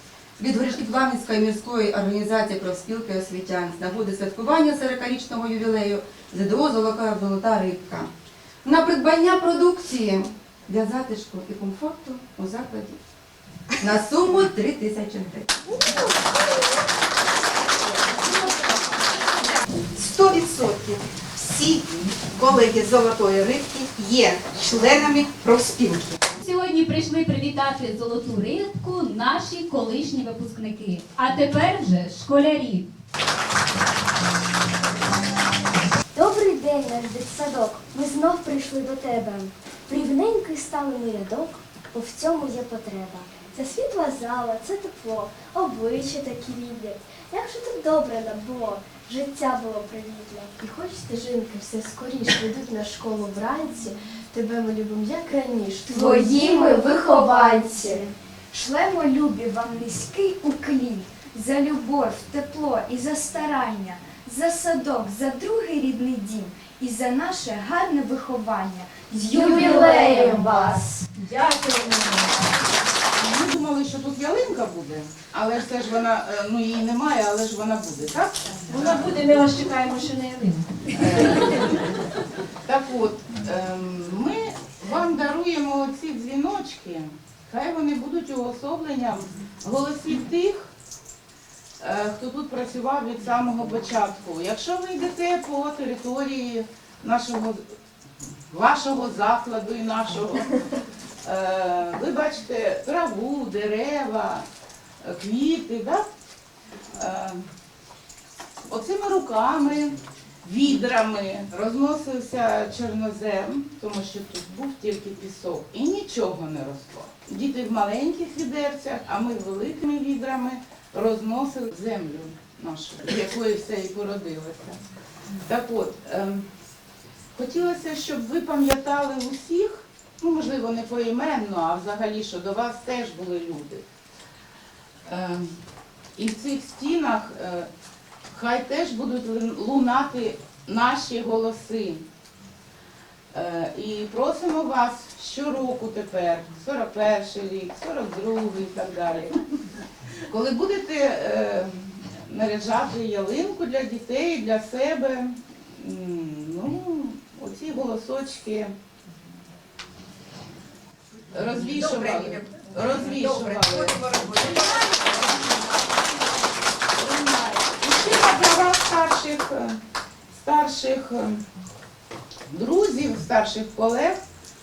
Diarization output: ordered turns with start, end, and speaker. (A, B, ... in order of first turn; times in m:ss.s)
0:00.4-0:08.1 A
0:08.6-0:13.0 A
0:13.8-0:15.6 A
0:19.9-0:26.2 B
0:26.4-0:32.9 C
0:36.2-0:58.1 D
0:55.9-1:11.0 E
1:09.3-1:12.4 F
1:13.2-1:19.2 G
1:18.7-1:20.7 F
1:21.0-1:21.8 G
1:22.7-1:30.7 G
1:31.8-1:37.6 G
1:38.5-1:40.7 G
1:41.2-1:44.5 G
1:45.0-1:46.1 G
1:47.0-1:47.4 G
1:48.7-2:04.8 G
2:05.4-2:06.5 G
2:07.4-2:13.8 G
2:15.1-2:15.6 G
2:16.2-2:17.7 G
2:18.3-2:22.0 G
2:23.3-2:29.4 G
2:30.3-2:38.7 G
2:41.3-2:44.6 G
2:41.6-2:45.4 B
2:46.9-2:49.8 G
2:50.3-2:51.4 G
2:52.5-2:54.2 G